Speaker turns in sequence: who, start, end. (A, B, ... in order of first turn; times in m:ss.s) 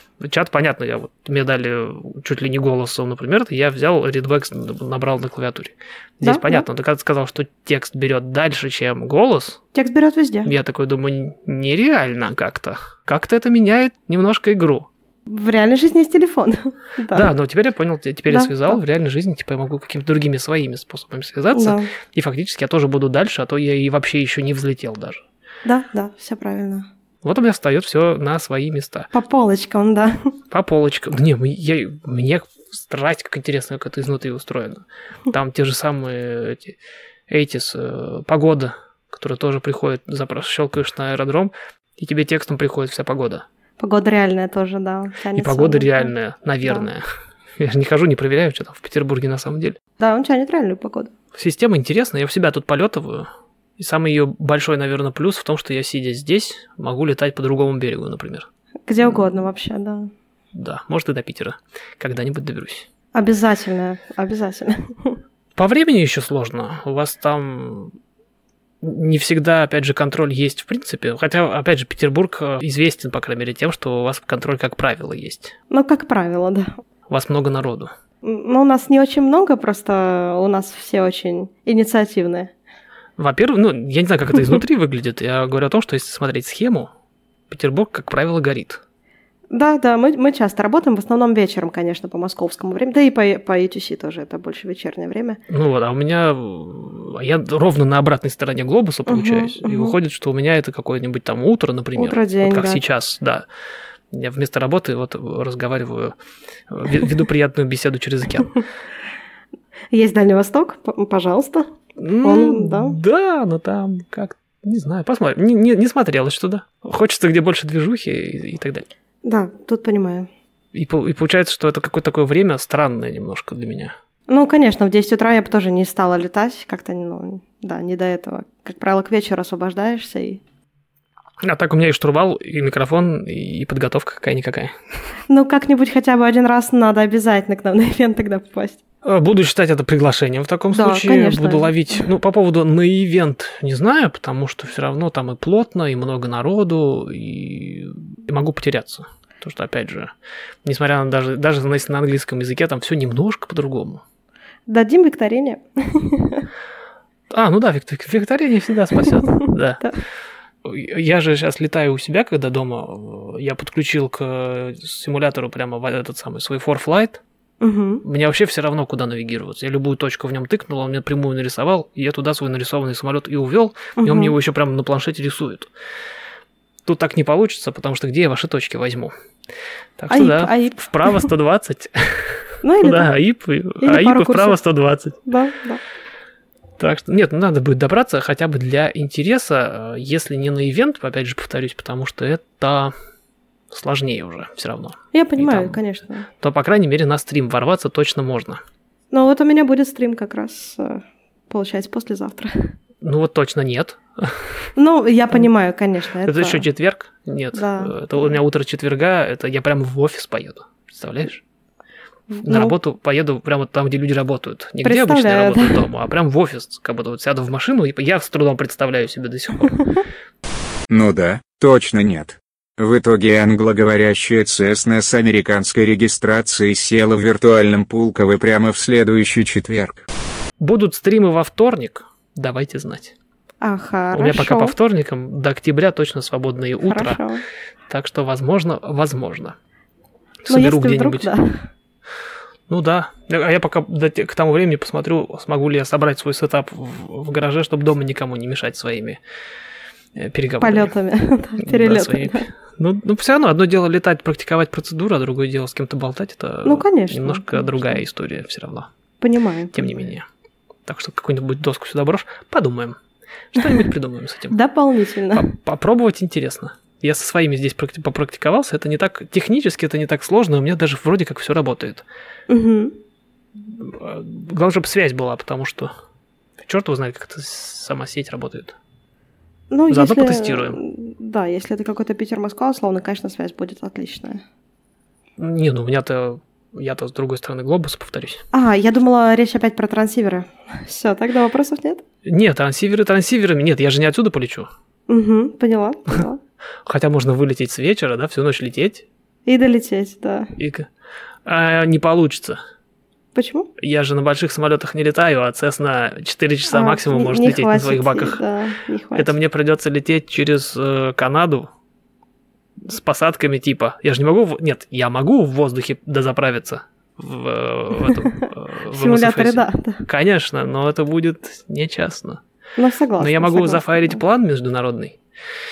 0:00.2-0:09.6 A
0:06.2-0:06.6 B
0:09.7-0:10.5 B
0:10.4-0:14.9 A
0:15.3-0:17.3 B
0:17.1-0:25.2 A
0:18.3-0:18.8 B
0:21.5-0:21.9 B
0:25.6-0:26.9 B
0:27.2-0:29.1 A
0:29.1-0:30.3 B
0:30.5-0:36.8 A
0:37.3-0:43.4 A
0:43.8-0:46.1 B
0:45.4-0:47.0 A
0:46.6-0:46.9 B
0:47.6-0:49.8 A
0:50.0-0:51.1 B
0:51.4-0:58.5 A
0:58.9-1:00.1 B
1:00.5-1:02.9 A
1:03.2-1:05.2 B
1:05.6-1:08.0 A
1:08.8-1:15.6 A
1:15.7-1:16.8 B
1:17.1-1:17.9 A
1:18.2-1:22.5 B
1:23.2-1:26.9 A
1:27.5-1:28.8 A
1:29.5-1:35.4 B
1:35.5-1:43.4 A
1:39.1-1:39.9 B
1:42.0-1:42.8 B
1:44.1-1:46.2 A
1:46.7-1:48.6 A
1:49.9-1:51.7 B
1:52.0-1:58.9 A
1:52.2-1:53.0 B
1:59.2-2:00.3 B
2:00.7-2:04.0 A
2:04.3-2:10.4 B
2:11.4-2:14.8 A
2:15.3-2:18.8 B
2:19.0-2:30.1 A
2:20.7-2:22.0 B
2:30.6-2:34.0 A
2:34.7-2:36.5 B
2:37.3-2:39.8 A
2:40.6-2:47.2 A
2:47.6-2:48.0 B
2:48.0-2:55.7 A
2:54.0-2:54.3 B
2:56.8-2:59.1 A
3:00.0-3:05.2 A
3:00.1-3:01.3 B
3:02.6-3:03.1 B
3:03.8-3:04.6 B
3:05.3-3:05.8 B
3:06.8-3:12.9 A
3:13.7-3:15.8 A
3:15.1-3:16.3 B
3:16.4-3:18.6 A
3:19.1-3:22.7 B
3:23.0-3:24.7 A
3:24.8-3:26.6 B
3:26.2-3:31.4 A
3:27.5-3:28.3 B
3:32.3-3:32.7 B
3:32.4-3:40.0 A
3:34.8-3:35.8 B
3:40.9-3:50.0 C
3:50.6-3:53.1 A
3:53.6-3:54.7 B
3:54.1-3:57.2 A
3:56.8-3:57.4 B
3:57.9-3:59.6 A
4:00.5-4:01.3 A
4:00.5-4:01.7 B
4:02.7-4:09.2 A
4:10.2-4:10.9 A
4:10.6-4:12.5 B
4:11.6-4:18.9 A
4:16.6-4:18.0 B
4:19.2-4:19.9 B
4:19.7-4:20.2 A
4:20.8-4:23.0 A
4:23.5-4:24.6 A
4:24.5-4:25.5 B
4:25.3-4:32.0 A
4:32.5-4:33.0 B
4:33.6-4:35.9 A
4:36.6-4:38.8 A
4:39.7-4:44.4 B
4:39.9-4:40.8 A
4:45.4-4:48.4 A
4:48.5-4:52.0 B
4:52.2-4:54.7 A
4:55.1-4:56.4 B
4:56.8-4:59.1 A
4:59.5-5:00.5 B
5:00.6-5:00.9 A
5:01.4-5:02.6 A
5:03.4-5:03.7 B
5:03.8-5:08.4 A
5:06.7-5:09.3 B
5:09.2-5:11.7 A
5:12.8-5:22.4 A
5:18.9-5:20.0 B
5:22.8-5:24.2 B
5:23.2-5:25.2 A